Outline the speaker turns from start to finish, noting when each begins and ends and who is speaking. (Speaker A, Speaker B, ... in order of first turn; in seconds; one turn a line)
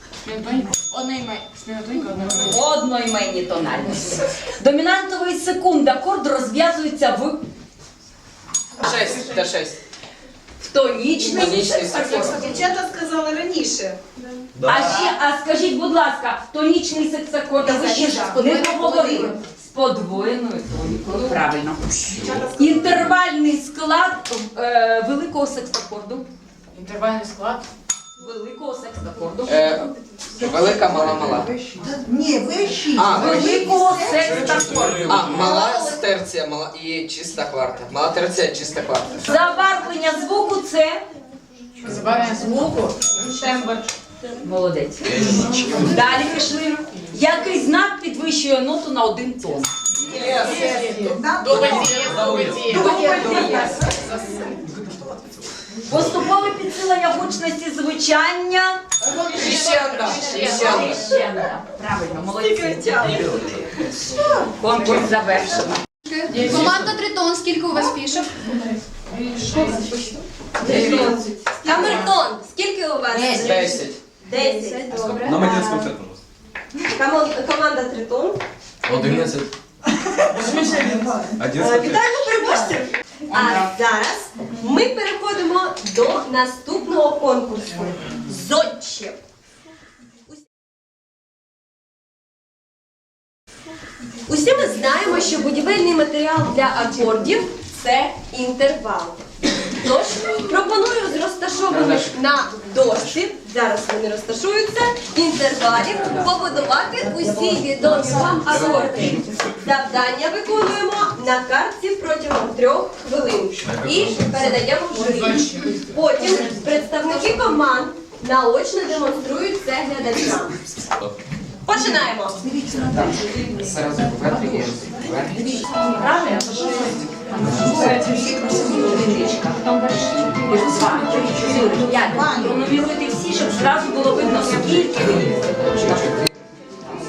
Speaker A: 0.2-2.7
Speaker B: 2.4-7.4
Speaker C: 8.8-9.8
Speaker B: 10.6-12.7
Speaker C: 11.2-12.4
Speaker D: 11.3-14.0
Speaker B: 14.6-21.8
Speaker D: 17.6-19.3
Speaker E: 17.8-19.4
Speaker D: 22.2-22.5
Speaker F: 22.2-22.7
Speaker B: 22.6-26.3
Speaker A: 26.7-27.7
Speaker B: 28.2-29.6
Speaker C: 29.5-31.5
Speaker D: 30.4-34.8
Speaker C: 32.9-33.8
Speaker B: 33.1-35.6
Speaker F: 34.1-35.6
Speaker C: 35.1-39.1
Speaker G: 35.4-36.0
Speaker B: 39.2-41.0
Speaker A: 41.8-43.1
Speaker B: 43.3-43.8
Speaker B: 44.4-49.7
Speaker F: 45.2-45.8
Speaker D: 50.1-54.1
Speaker C: 50.1-50.6
Speaker A: 50.3-54.4
Speaker C: 51.5-53.1
Speaker B: 52.7-53.8
Speaker B: 55.9-58.8
Speaker A: 59.1-60.9
Speaker C: 59.3-61.0
Speaker B: 60.1-63.2
Speaker G: 62.5-63.3
Speaker D: 64.1-64.5
Speaker B: 64.6-65.8
Speaker E: 66.1-68.3
Speaker A: 66.3-66.7
Speaker C: 66.4-66.7
Speaker A: 69.1-71.2
Speaker G: 70.6-75.5
Speaker D: 70.7-71.2
Speaker C: 73.3-74.0
Speaker E: 74.3-75.9
Speaker F: 74.9-76.2
Speaker G: 76.8-78.4
Speaker F: 78.8-79.5
Speaker D: 80.2-81.4
Speaker A: 80.5-81.0
Speaker F: 81.4-82.0
Speaker G: 81.5-89.2
Speaker G: 94.3-99.2
Speaker G: 99.7-120.6
Speaker C: 101.7-102.1
Speaker D: 107.2-108.4
Speaker F: 108.7-109.3
Speaker F: 113.7-114.2
Speaker A: 115.0-115.8
Speaker G: 121.7-122.4
Speaker D: 122.4-123.2
Speaker C: 123.5-125.5
Speaker B: 126.0-136.1
Speaker D: 127.7-129.3
Speaker D: 130.6-132.7